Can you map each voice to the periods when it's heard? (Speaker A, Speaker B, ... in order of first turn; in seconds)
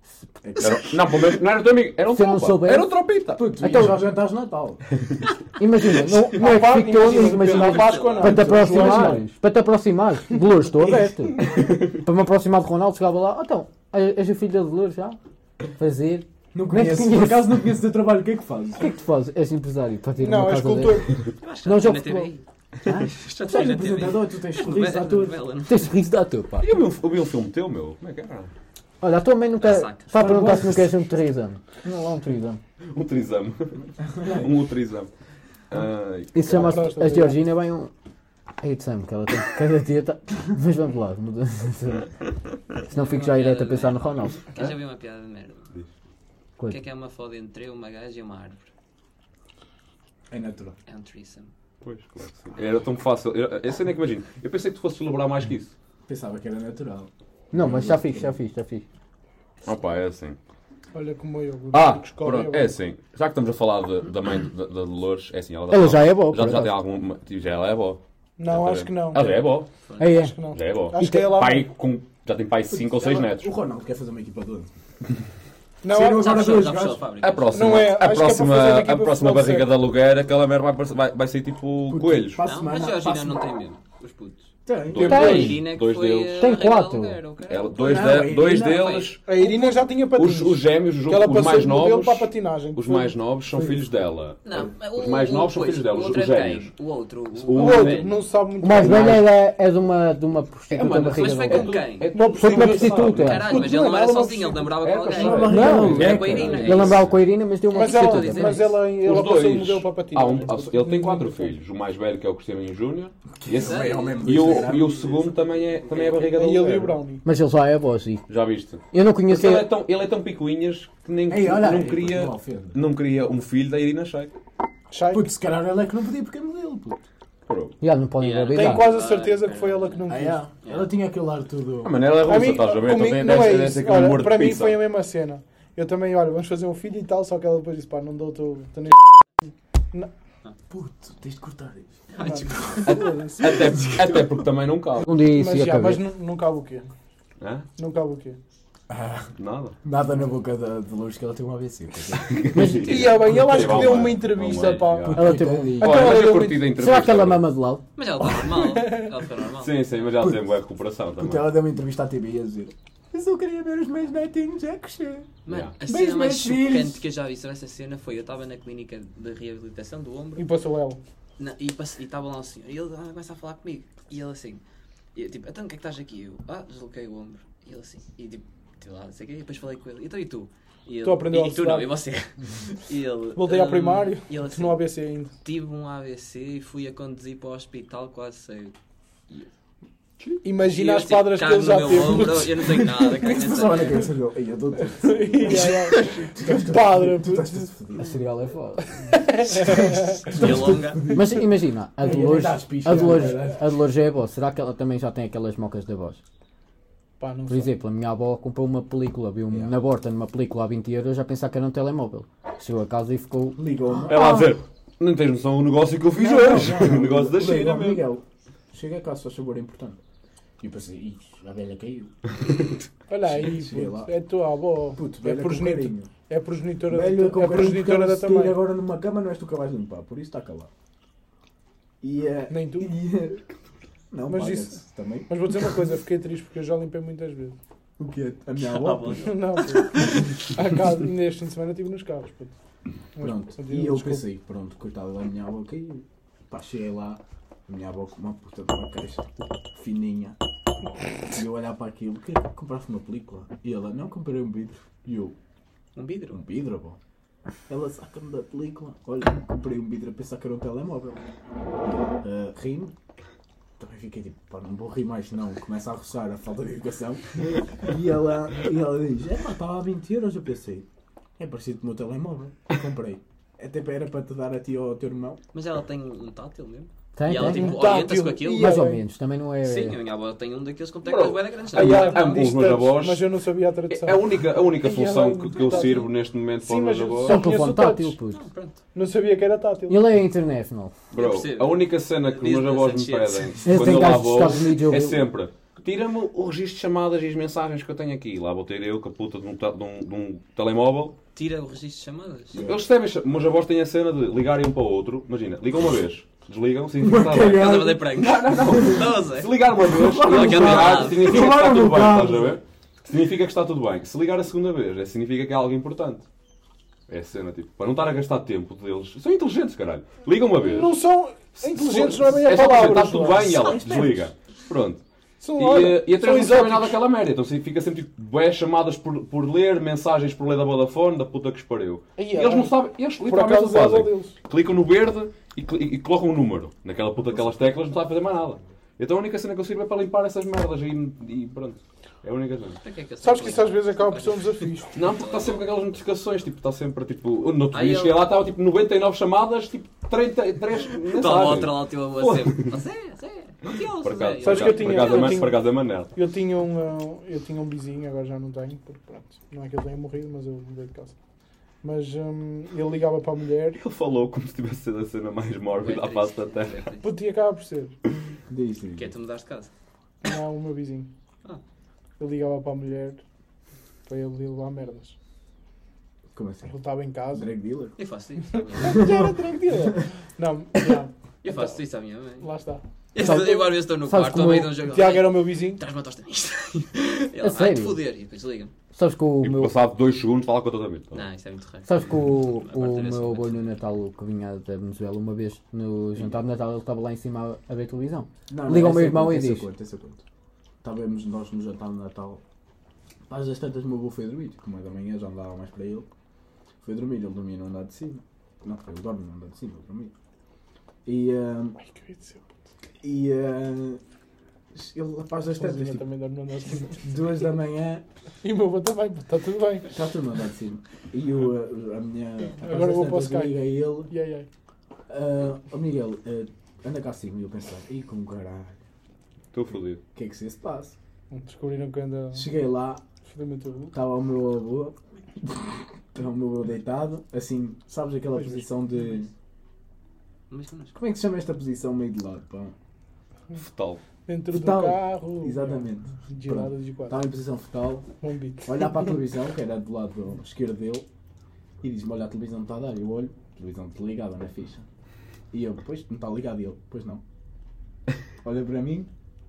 Speaker A: 0.4-1.2, 3.4-4.8, 8.2-9.2, 16.5-18.9, 22.9-25.4, 30.1-30.9, 34.0-34.5, 50.3-50.8, 56.0-58.4, 72.7-74.7, 75.8-77.1, 81.9-83.5, 84.7-85.5, 87.8-89.0, 93.5-93.8, 105.1-106.9, 113.4-116.0, 121.3-122.8, 125.1-127.0, 130.1-132.1, 140.7-144.2, 148.9-149.3, 149.8-152.7, 153.5-154.1, 155.0-156.2, 161.2-165.3, 165.8-167.0, 193.1-198.2, 199.7-201.4, 202.0-203.6, 213.6-214.4, 216.1-220.0, 220.6-222.1, 223.2-224.1, 224.9-226.1, 226.8-230.7, 232.0-233.4, 234.1-235.8, 238.0-239.2, 243.2-250.4, 251.3-255.4, 256.3-257.0, 257.7-261.2, 261.9-262.9, 263.8-270.9, 271.4-275.4, 302.5-302.8, 307.0-309.2, 309.8-312.6, 323.4-324.3, 368.5-369.1, 376.3-376.7, 377.3-378.0, 378.9-379.9, 398.5-400.2, 400.8-402.4, 403.3-406.1, 406.8-410.1, 411.0-411.8, 413.0-414.0, 414.7-416.1, 417.0-418.0, 419.9-424.1, 425.1-428.8, 430.1-431.0, 432.3-433.0, 433.9-439.3, 440.9-442.8, 444.5-448.1, 448.6-451.1, 451.8-454.8, 455.5-457.2, 458.4-459.1
Speaker B: 0.6-3.5, 26.6-28.5, 32.9-35.1, 35.7-36.8, 51.8-55.7, 59.6-60.4, 61.7-69.7, 70.5-73.5, 77.2-82.4, 84.9-86.5, 87.5-96.7, 97.4-98.1, 98.8-99.2, 100.7-107.2, 109.0-117.0, 118.3-124.3, 127.5-127.8, 131.8-134.8, 142.8-145.1, 147.4-147.7, 149.4-149.8, 152.3-155.2, 155.8-157.4, 159.6-161.5, 165.5-165.7, 214.1-218.1, 281.0-283.4, 283.9-287.4, 291.1-301.2, 302.5-316.2, 317.1-321.0, 321.6-325.0, 325.6-342.8, 344.9-352.7, 354.0-356.1, 363.8-366.8, 389.4-391.2, 429.5-430.0, 443.6-444.0
Speaker C: 2.1-2.9, 3.6-4.0, 5.6-15.2, 15.8-17.8, 18.8-21.1, 21.6-22.3, 25.7-26.7, 29.0-32.6, 36.3-37.9, 38.6-42.1, 42.9-44.4, 57.5-58.9, 65.7-66.8, 70.0-70.4, 71.0-71.4, 85.0-85.7, 86.4-87.2, 98.6-101.8, 102.3-103.6, 105.5-108.7, 117.2-118.2, 118.9-119.7, 127.8-128.8, 145.0-146.0, 152.5-153.3, 155.1-157.8, 198.0-198.9, 201.1-206.2, 207.5-213.6, 277.1-277.8, 278.5-280.0, 287.2-288.4, 289.9-290.9, 293.6-295.3, 383.2-384.8, 387.4-388.0, 388.9-389.8, 391.9-399.7
Speaker D: 6.3-9.2, 20.2-21.1, 36.4-37.4, 60.9-62.7, 68.4-69.5, 70.1-71.6, 75.8-76.6, 77.5-79.7, 89.2-93.2, 97.5-99.2, 102.1-104.3, 107.7-111.5, 116.2-117.2, 124.9-125.3, 128.5-130.4, 132.2-139.0, 142.2-143.5, 145.3-146.9, 147.8-148.4, 152.8-155.2, 155.8-156.7, 158.8-159.1, 170.4-171.0, 181.0-181.9, 183.4-185.3, 190.4-192.9, 195.0-197.7, 199.1-200.3, 207.2-207.7, 223.1-228.6, 232.5-232.9, 234.3-237.6, 239.2-242.5, 243.1-244.2, 277.4-279.0, 281.7-288.1, 288.9-290.0, 320.6-323.5, 325.4-327.0, 332.2-334.3, 343.2-345.0, 354.4-361.1, 361.8-363.8, 367.0-367.9, 370.2-371.1, 372.2-373.2, 374.1-375.1, 376.7-377.5, 378.8-381.8, 382.4-382.8, 384.9-385.8, 411.8-412.4, 415.5-417.0, 418.4-419.9, 422.6-424.5, 431.3-432.6, 433.3-433.9, 438.4-438.6, 444.3-447.2, 448.2-449.1
Speaker E: 7.1-8.4, 21.4-22.4, 23.2-25.9, 29.6-30.2, 42.9-45.7, 46.7-48.7, 50.9-51.5, 69.9-70.1, 76.1-77.7, 82.4-84.5, 85.1-89.1, 94.4-98.1, 101.1-107.1, 107.7-108.8, 113.5-114.4, 128.2-130.9, 142.1-142.9, 157.9-159.7, 165.4-170.5, 171.4-174.6, 175.1-184.8, 185.4-188.8, 190.6-194.1, 200.3-201.0, 238.6-239.8, 255.9-256.4, 275.5-278.8, 279.6-282.4, 288.3-288.8, 291.1-293.6, 301.3-302.6, 307.5-309.5, 310.2-311.4, 342.8-345.6, 347.7-348.2, 351.1-355.4, 365.8-367.1, 369.0-369.7, 378.0-379.0, 381.4-382.5, 383.1-388.7, 391.1-393.7, 440.5-441.0